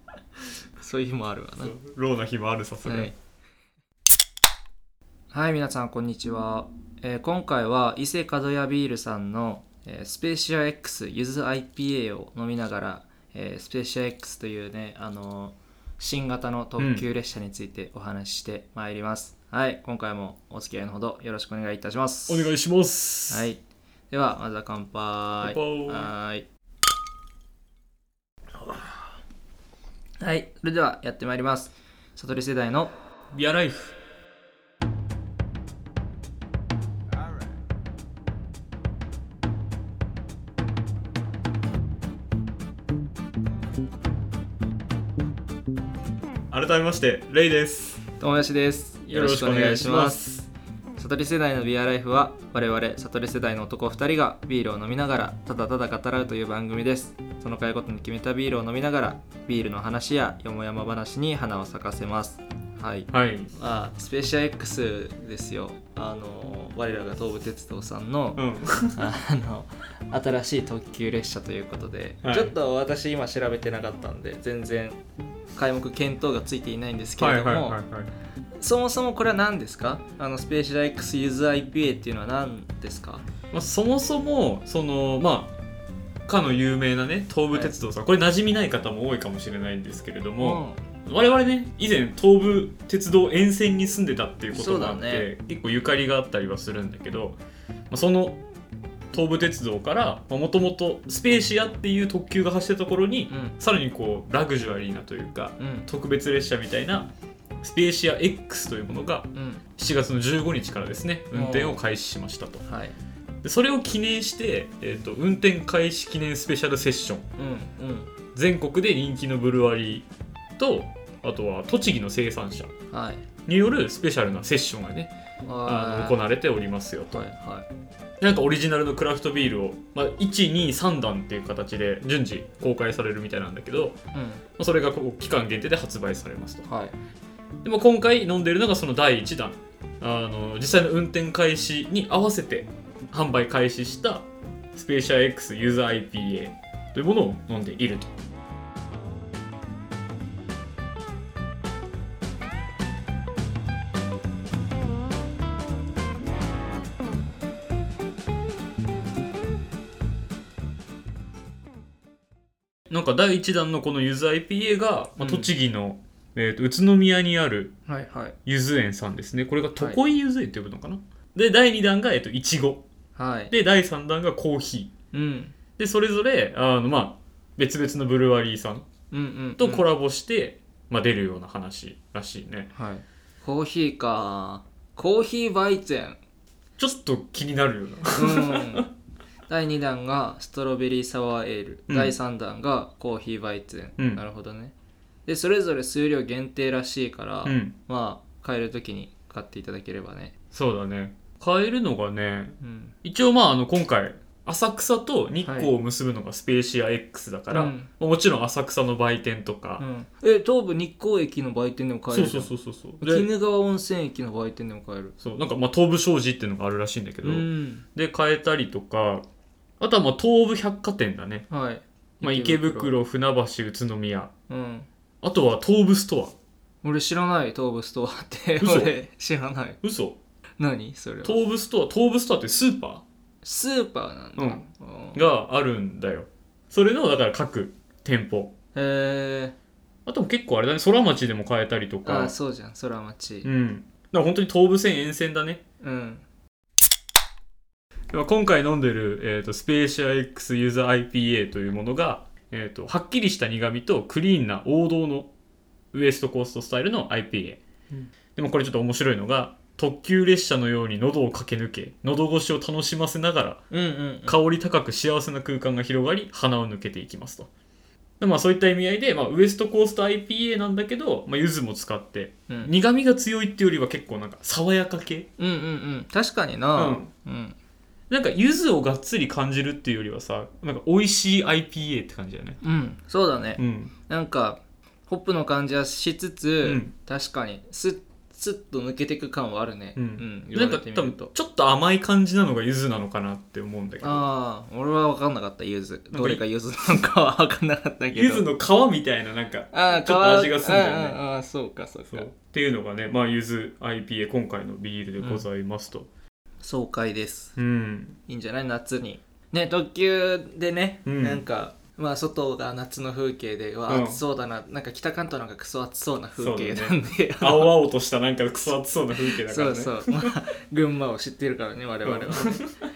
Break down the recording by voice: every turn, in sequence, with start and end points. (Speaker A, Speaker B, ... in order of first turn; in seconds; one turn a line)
Speaker A: 0.8-1.8
Speaker B: 1.6-3.1
Speaker A: 2.8-3.1
Speaker A: 5.3-22.5
Speaker B: 16.8-17.0
Speaker B: 22.3-23.5
Speaker A: 23.3-23.6
Speaker A: 24.1-26.4
Speaker B: 25.4-26.1
Speaker A: 30.2-32.9
Speaker B: 33.3-34.0
Speaker B: 46.5-48.0
Speaker A: 48.2-50.3
Speaker B: 49.1-50.5
Speaker A: 51.0-68.4
Speaker B: 63.1-63.5
Speaker B: 68.4-69.0
Speaker A: 69.0-75.0
Speaker B: 72.2-72.5
Speaker A: 75.5-77.8
Speaker B: 77.2-78.1
Speaker A: 78.6-83.3
Speaker B: 83.5-85.5
Speaker B: 86.3-97.4
Speaker A: 90.4-90.8
Speaker A: 94.5-95.3
Speaker B: 97.9-98.4
Speaker B: 99.1-112.6
Speaker A: 103.3-103.6
Speaker A: 105.6-105.9
Speaker A: 109.3-109.6
Speaker A: 111.3-111.8
Speaker A: 112.7-113.0
Speaker B: 113.4-117.3
Speaker A: 117.4-118.1
Speaker B: 118.3-120.1
Speaker B: 120.6-122.7
Speaker A: 122.9-123.3
Speaker B: 123.5-125.1
Speaker A: 125.5-126.2
Speaker B: 125.7-127.3
Speaker A: 127.1-127.7
Speaker B: 128.2-134.0
Speaker A: 134.1-134.4
Speaker B: 134.6-136.7
Speaker A: 136.7-136.9
Speaker B: 137.6-148.1
Speaker B: 162.9-167.7
Speaker A: 165.2-165.5
Speaker A: 167.9-168.4
Speaker B: 168.4-172.8
Speaker A: 173.2-173.5
Speaker B: 173.5-174.9
Speaker A: 175.1-175.6
Speaker B: 175.8-178.9
Speaker A: 179.1-179.8
Speaker B: 179.6-182.7
Speaker A: 182.8-186.2
Speaker B: 186.8-188.8
Speaker A: 188.2-188.9
Speaker A: 189.5-194.7
Speaker B: 191.9-192.1
Speaker A: 195.3-200.3
Speaker B: 197.4-197.8
Speaker B: 200.5-209.8
Speaker A: 202.6-202.9
Speaker A: 205.4-205.7
Speaker A: 207.5-207.9
Speaker A: 209.8-215.2
Speaker B: 212.1-213.3
Speaker B: 215.2-219.3
Speaker A: 217.2-217.8
Speaker B: 219.8-221.5
Speaker A: 221.5-222.9
Speaker B: 222.2-224.3
Speaker A: 224.5-224.9
Speaker B: 225.2-226.4
Speaker A: 226.8-229.8
Speaker B: 228.6-228.9
Speaker B: 229.8-230.2
Speaker A: 230.6-231.4
Speaker B: 231.2-233.1
Speaker A: 233.4-235.2
Speaker B: 234.4-238.5
Speaker A: 238.8-239.6
Speaker B: 240.1-242.3
Speaker A: 242.1-243.5
Speaker B: 243.4-245.6
Speaker A: 245.8-246.2
Speaker B: 248.1-255.3
Speaker B: 255.9-263.6
Speaker A: 263.7-264.4
Speaker B: 264.2-267.5
Speaker B: 268.2-275.3
Speaker A: 275.4-277.6
Speaker B: 276.8-277.1
Speaker B: 278.1-282.6
Speaker A: 282.6-291.3
Speaker B: 283.6-283.9
Speaker B: 286.6-286.9
Speaker B: 290.0-294.3
Speaker A: 294.0-298.5
Speaker B: 296.1-296.4
Speaker B: 298.1-301.2
Speaker A: 299.7-302.3
Speaker B: 302.1-306.1
Speaker A: 305.2-305.4
Speaker A: 306.6-307.6
Speaker B: 307.6-308.2
Speaker A: 308.3-317.8
Speaker B: 311.1-311.4
Speaker B: 313.9-314.2
Speaker B: 316.4-320.3
Speaker A: 319.2-322.6
Speaker B: 322.0-322.7